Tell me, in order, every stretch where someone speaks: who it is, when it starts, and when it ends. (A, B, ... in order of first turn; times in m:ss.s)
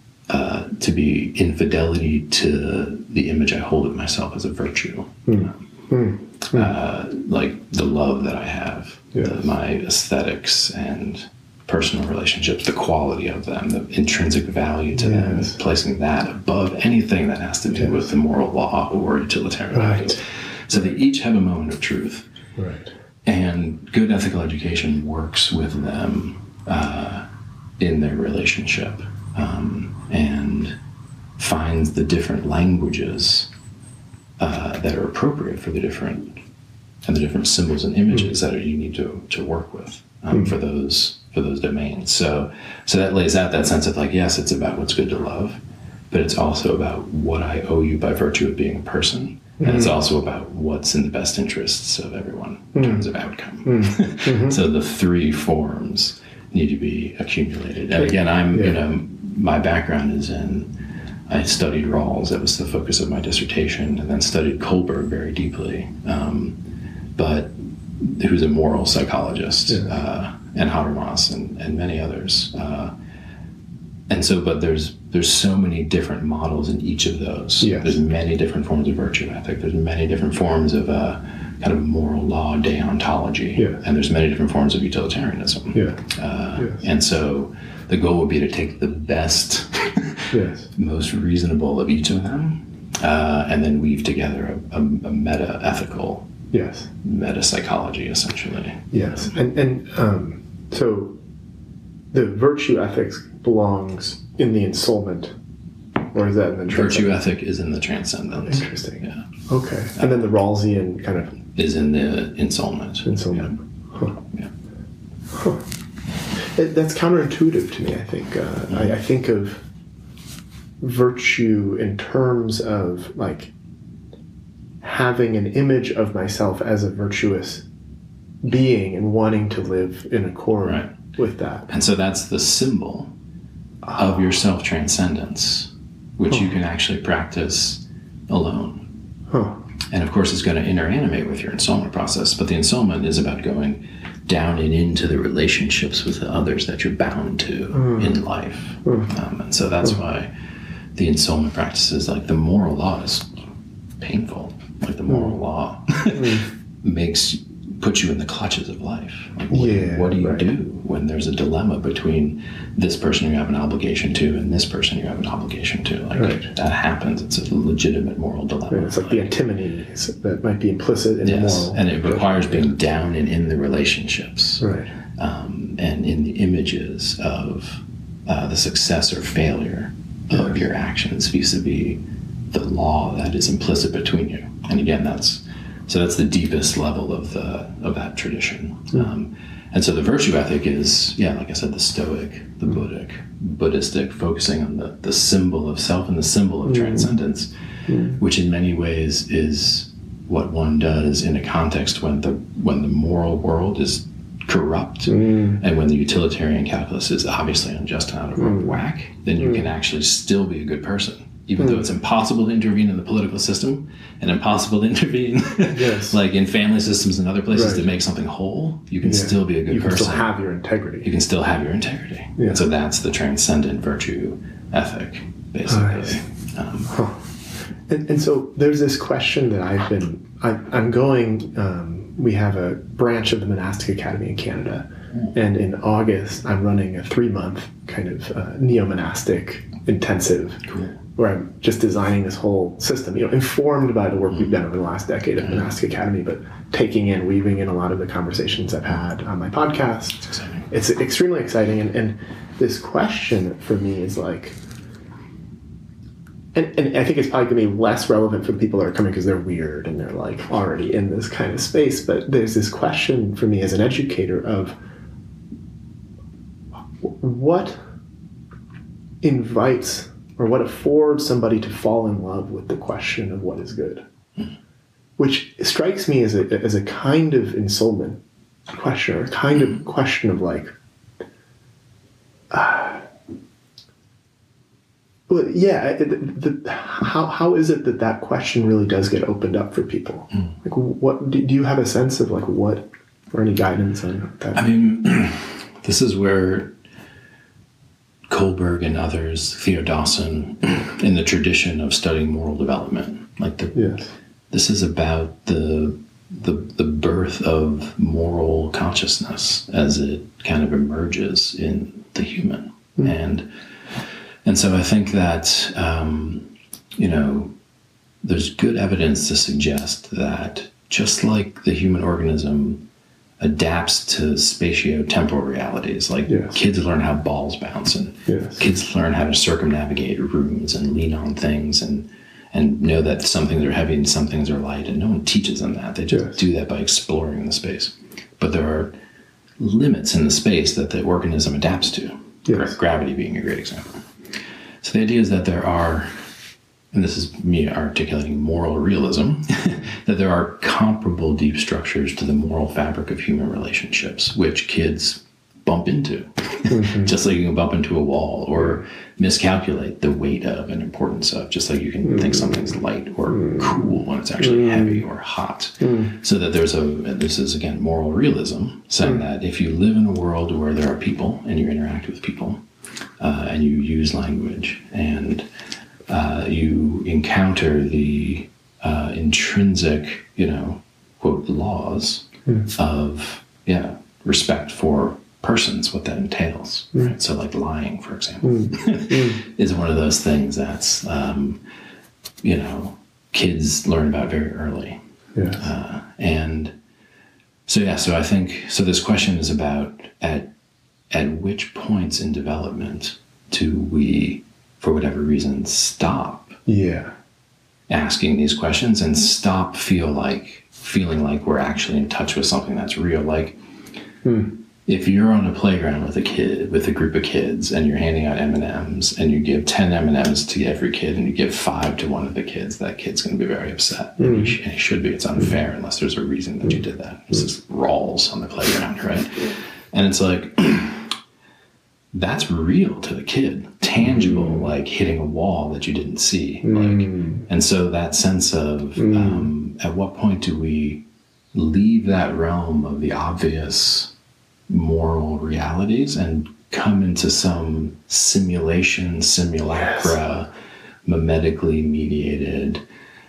0:00.3-0:05.6 A
0:05.3-0:06.7 B
0:06.5-0:22.3 A
0:15.0-0:15.6 B
0:17.8-0:18.0 B
0:19.7-0:20.2 B
0:22.6-0:22.9 B
0:23.2-0:27.3 A
0:27.8-0:30.8 A
0:31.4-0:33.5 A
0:34.4-0:36.4 A
0:37.0-1:00.7 A
0:49.6-0:50.0 B
0:52.8-0:53.1 B
0:53.7-0:54.6 B
1:01.3-1:06.6 A
1:07.2-1:12.9 A
1:14.1-1:36.3 A
1:17.6-1:17.9 B
1:25.7-1:26.0 B
1:26.6-1:26.8 B
1:30.3-1:30.7 B
1:36.5-1:36.9 B
1:37.0-1:39.3 A
1:38.9-1:41.2 B
1:42.1-1:45.3 B
1:46.1-1:47.2 B
1:46.7-1:49.2 A
1:48.4-1:51.4 B
1:51.5-1:53.5 A
1:53.0-1:54.2 B
1:54.2-1:54.5 A
1:55.3-1:55.6 B
1:56.4-1:59.6 B
2:00.8-2:03.5 B
2:04.8-2:07.6 B
2:08.4-2:11.7 B
2:10.6-2:10.9 A
2:11.7-2:13.1 A
2:14.0-2:18.9 A
2:19.3-2:19.6 B
2:19.9-2:30.3 A
2:27.7-2:28.2 B
2:28.8-2:29.1 B
2:31.0-2:33.3 A
2:34.0-2:49.3 A
2:35.1-2:35.4 B
2:36.1-2:36.5 B
2:39.5-2:40.5 B
2:46.2-2:46.5 B
2:48.7-2:52.7 B
2:51.2-2:54.6 A
2:54.6-2:54.9 B
2:55.2-3:40.3 A
3:16.7-3:17.1 B
3:17.9-3:18.2 B
3:25.1-3:25.6 B
3:28.4-3:28.8 B
3:31.6-3:31.9 B
3:35.7-3:36.2 B
3:37.5-3:37.8 B
3:39.0-3:41.1 B
3:41.0-3:46.9 A
3:45.7-3:46.2 B
3:46.9-3:47.2 B
3:47.9-4:00.6 B
4:00.7-4:01.0 A
4:01.2-4:14.6 B
4:10.3-4:10.7 A
4:16.5-4:24.8 B
4:27.0-4:27.8 B
4:29.2-4:34.0 B
4:35.2-4:40.7 B
4:42.5-4:43.0 B
4:45.3-4:54.6 B
4:54.5-4:56.7 A
4:58.3-5:03.9 A
5:03.8-5:04.1 B
5:04.5-5:13.5 A
5:14.4-5:17.5 A
5:18.2-5:22.9 A
5:23.4-5:38.9 A
5:26.3-5:26.6 B
5:28.3-5:28.6 B
5:39.6-5:44.0 A
5:42.5-5:42.7 B
5:44.8-5:46.1 A
5:46.9-6:12.6 A
5:56.7-5:57.1 B
6:02.1-6:02.6 B
6:03.3-6:03.8 B
6:04.4-6:05.0 B
6:05.8-6:06.2 B
6:13.2-6:15.5 A
6:16.1-6:31.6 A
6:28.4-6:29.4 B
6:32.4-6:35.0 A
6:35.4-6:35.6 B
6:35.6-6:36.8 A
6:37.7-6:40.5 A
6:41.1-6:46.6 A
6:46.7-6:47.1 B
6:47.9-6:53.6 A
6:54.2-6:54.6 B
6:54.9-7:11.2 A
7:04.2-7:04.6 B
7:12.1-7:24.1 A
7:14.0-7:14.7 B
7:16.6-7:17.5 B
7:19.0-7:19.5 B
7:24.7-7:30.5 A
7:29.8-7:30.2 B
7:31.1-7:32.8 A